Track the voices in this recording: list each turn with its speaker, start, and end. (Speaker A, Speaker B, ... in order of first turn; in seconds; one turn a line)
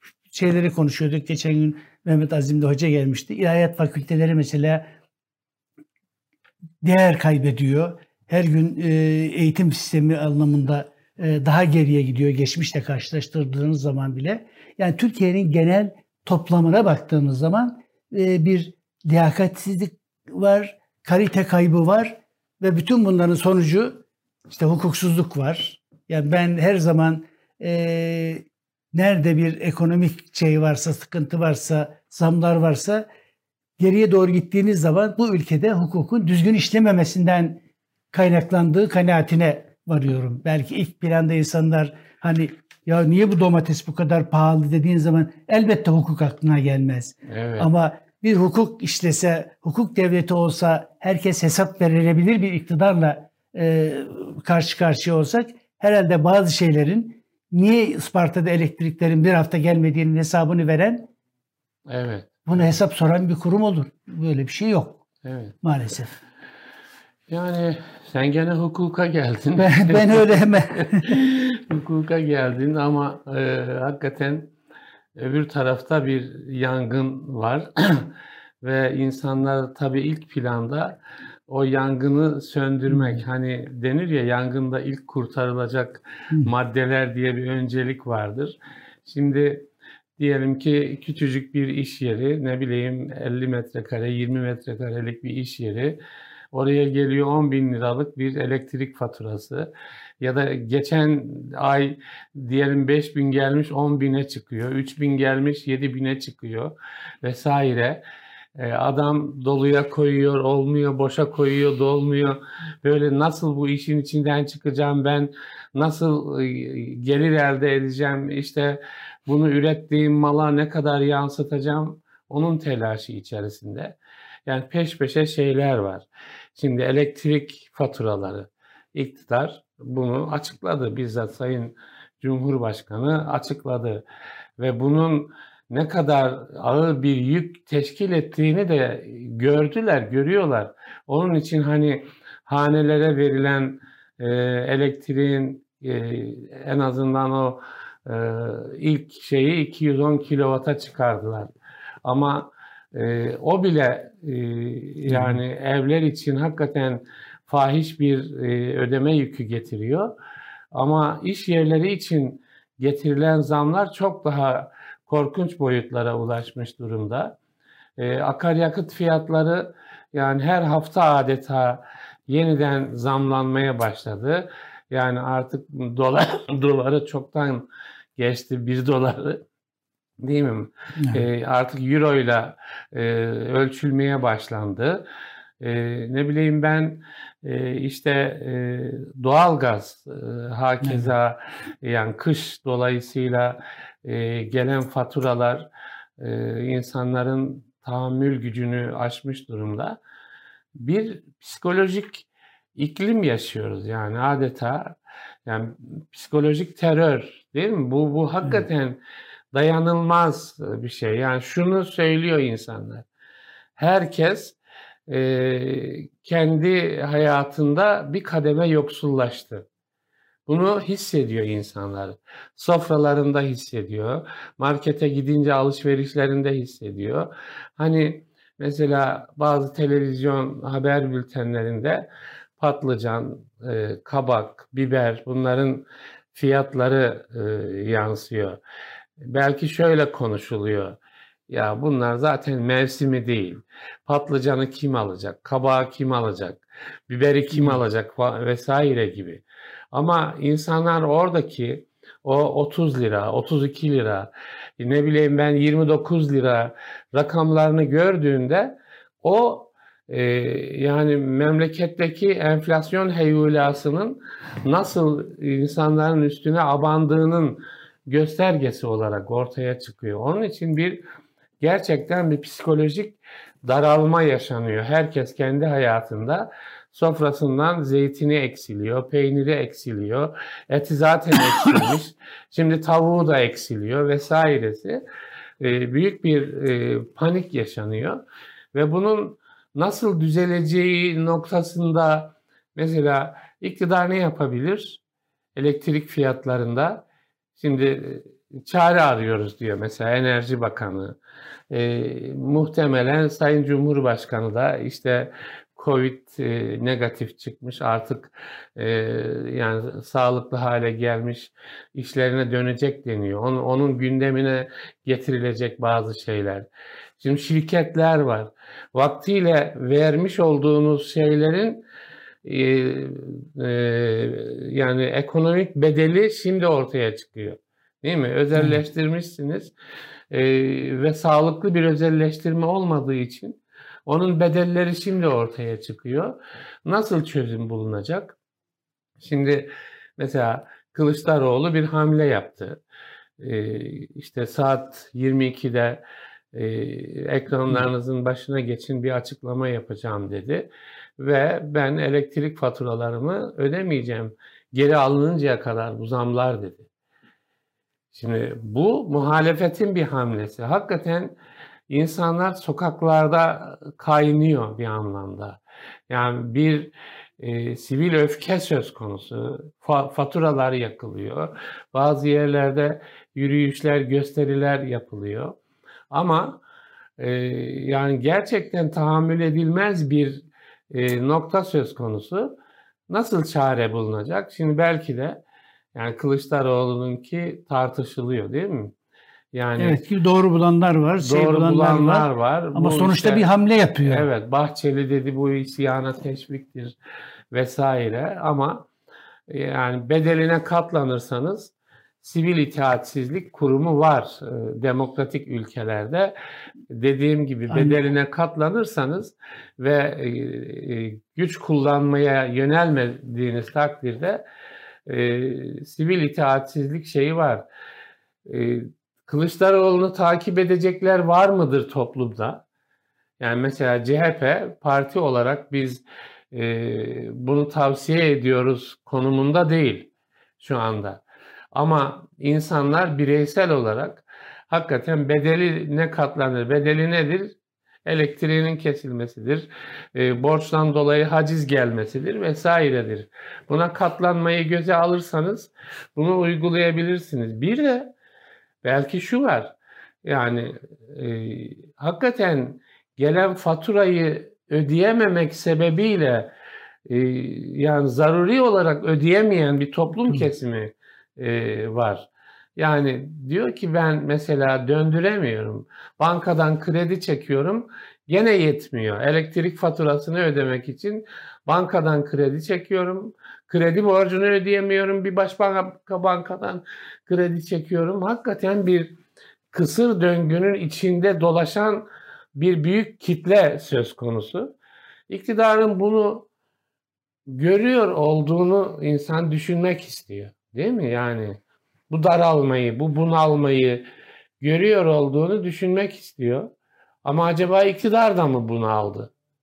Speaker A: 0.3-4.8
Speaker A: 6.8-33.0
Speaker A: 33.8-37.6
Speaker A: 38.1-61.1
Speaker B: 47.3-47.7
Speaker B: 61.9-62.5
Speaker A: 62.5-65.0
Speaker B: 65.2-65.5
Speaker A: 65.6-66.1
Speaker B: 67.3-74.5
Speaker A: 69.6-71.2
Speaker B: 75.2-81.0
Speaker B: 81.5-96.0
Speaker A: 82.9-83.2
Speaker B: 96.5-99.7
Speaker B: 100.2-108.0
Speaker B: 108.5-124.0
Speaker B: 124.5-134.0
Speaker B: 134.6-151.5
Speaker B: 152.0-160.1
Speaker A: 155.1-155.4
Speaker B: 160.7-167.3
Speaker B: 168.0-179.4
Speaker B: 180.2-185.0
Speaker A: 181.0-181.2
Speaker B: 185.6-195.7
Speaker A: 190.8-191.1
Speaker B: 196.2-200.0
Speaker B: 200.8-209.0
Speaker B: 209.5-213.1
Speaker B: 213.8-214.6
Speaker B: 215.1-219.7
Speaker B: 220.5-238.6
Speaker B: 239.2-241.0
Speaker B: 241.5-271.0
Speaker A: 247.5-247.8
Speaker B: 271.6-285.0
Speaker B: 285.6-288.2
Speaker B: 288.7-295.0
Speaker B: 295.6-297.0
Speaker B: 297.6-301.2
Speaker B: 301.7-316.6
Speaker B: 317.2-321.8
Speaker B: 322.4-329.7
Speaker B: 330.3-336.3
Speaker B: 336.9-338.4
Speaker B: 339.2-342.8
Speaker B: 343.4-346.0
Speaker B: 346.5-356.9
Speaker B: 358.1-361.3
Speaker B: 361.9-375.6
Speaker B: 376.1-376.6
Speaker B: 377.2-382.5
Speaker B: 383.1-385.4
Speaker B: 385.9-388.9
Speaker B: 389.5-390.0
Speaker A: 389.8-394.3
Speaker B: 391.2-393.5
Speaker B: 394.0-396.9
Speaker B: 397.5-398.9
Speaker B: 399.5-406.3
Speaker B: 406.9-414.4
Speaker A: 407.7-408.0
Speaker B: 415.1-417.6
Speaker B: 418.4-422.6
Speaker B: 423.4-431.2
Speaker B: 431.7-448.1
Speaker B: 448.8-456.5
Speaker B: 457.1-479.2
Speaker B: 479.7-484.7
Speaker B: 485.3-486.5
Speaker B: 487.5-494.0
Speaker B: 494.6-496.7
Speaker B: 497.2-499.3